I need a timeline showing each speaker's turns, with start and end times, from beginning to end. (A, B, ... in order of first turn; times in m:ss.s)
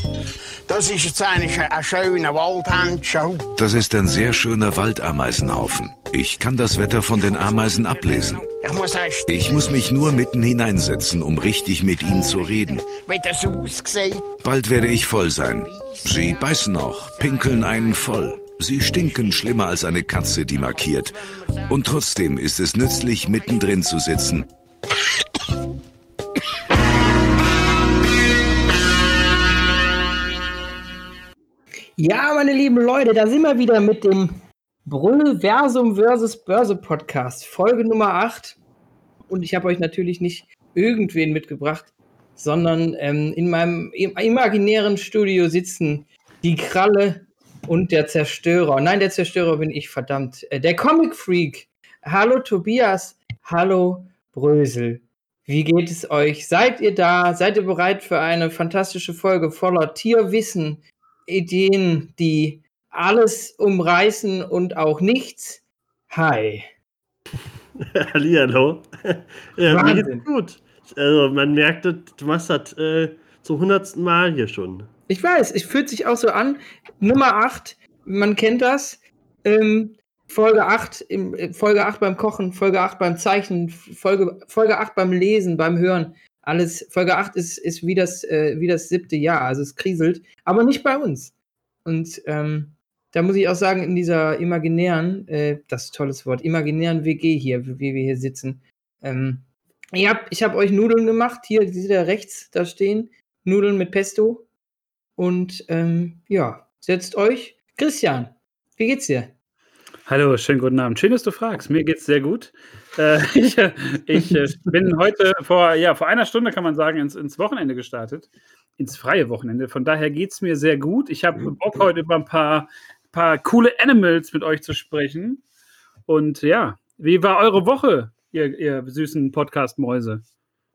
0:00.7-0:03.5 A
0:03.6-0:08.4 B
0:07.9-0:10.2 A
0:09.3-0:12.8 B
0:12.7-0:14.3 A
0:14.4-0:21.2 B
0:15.8-0:16.4 A
0:17.2-0:17.5 A
0:21.7-0:24.5 B
0:32.0-0:38.6 C
0:39.3-1:06.7 C
1:07.8-1:14.9 D
1:09.6-1:10.2 C
1:15.1-1:31.3 C
1:31.8-1:39.4 C
1:39.9-1:44.4 C
1:45.2-1:49.3 C
1:50.1-2:05.4 E
2:06.1-2:10.2 E